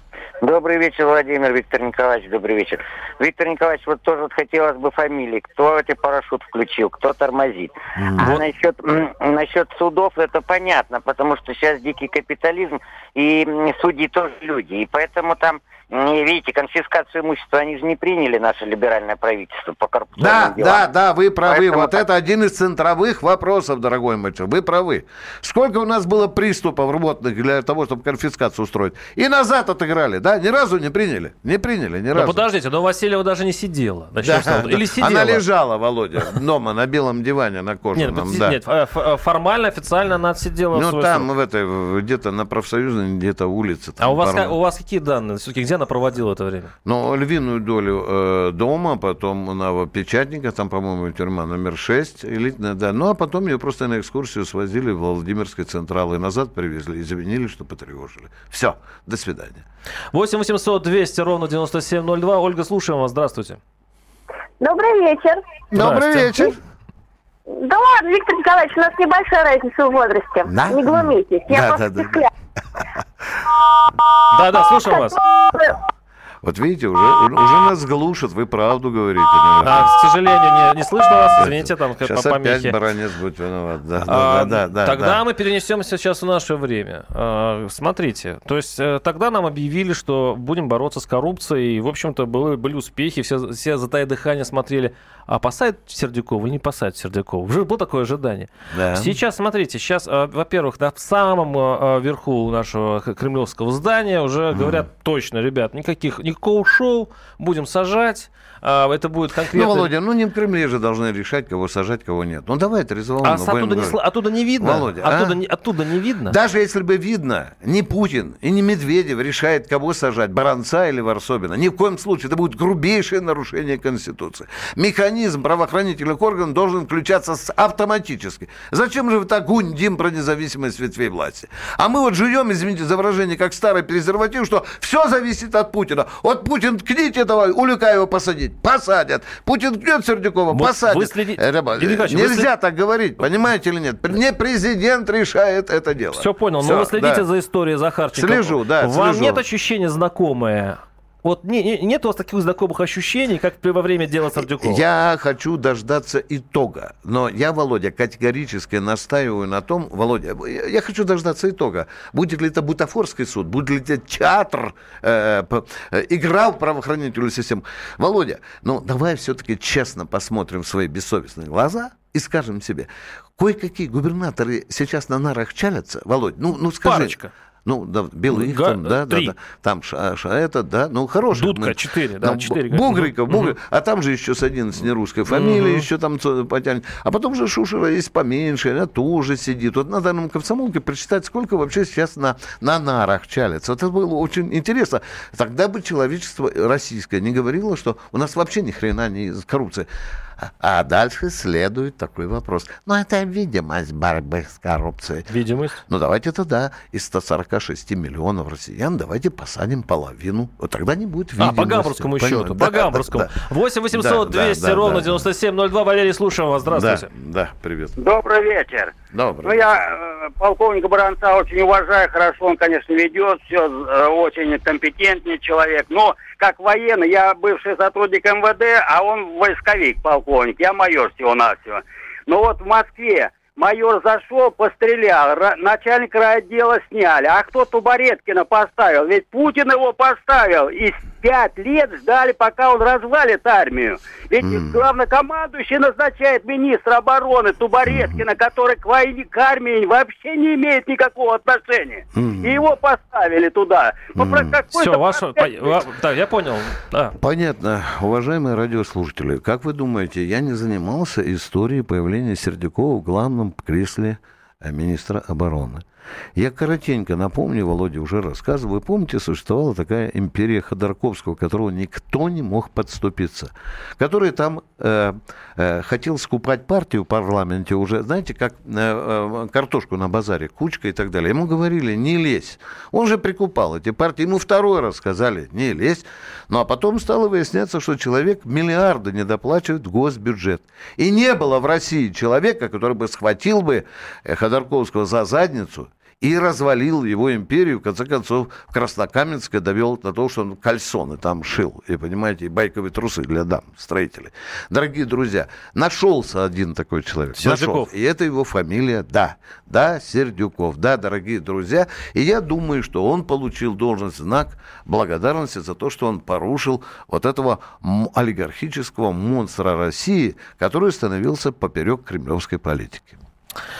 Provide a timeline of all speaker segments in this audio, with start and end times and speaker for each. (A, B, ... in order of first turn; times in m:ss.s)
0:00.4-0:20.9 A
0:08.0-0:08.3 B
0:20.2-0:32.4 B
0:21.5-0:22.0 A
0:32.1-0:35.4 C
0:34.2-0:38.6 B
0:38.0-0:41.3 C
0:40.7-0:44.6 B
0:44.0-0:46.7 C
0:46.8-0:59.6 B
1:00.1-1:03.6 C
1:04.6-1:05.4 D
1:05.7-1:06.6 B
1:05.8-1:06.3 C
1:07.5-1:12.3 D
1:10.4-1:12.3 B
1:14.3-1:15.2 C
1:16.4-1:19.9 B
1:19.6-1:22.8 C
1:21.4-1:25.2 B
1:24.1-1:49.9 C
1:38.7-1:39.1 B
1:44.5-1:44.9 B
1:49.5-1:54.0 B
1:53.2-1:56.4 C
1:54.6-1:55.4 B
1:56.3-2:27.3 B
2:20.5-2:22.5 C
2:26.1-2:34.8 C
2:28.1-2:29.4 B
2:34.5-3:25.3 B
2:56.8-2:57.3 C
2:58.3-2:59.3 C
3:01.3-3:03.6 C
3:05.3-3:05.9 C
3:25.3-3:25.8 C
3:25.8-3:33.4 B
3:31.4-3:37.1 C
3:33.9-3:35.3 B
3:36.7-3:38.0 B
3:38.0-4:15.8 E
3:39.1-3:39.8 B
4:04.4-4:04.8 B
4:07.9-4:08.2 B
4:12.2-4:12.7 B
4:14.2-4:14.6 B
4:14.7-4:17.2 C
4:17.2-5:23.2 B
5:07.4-5:07.9 C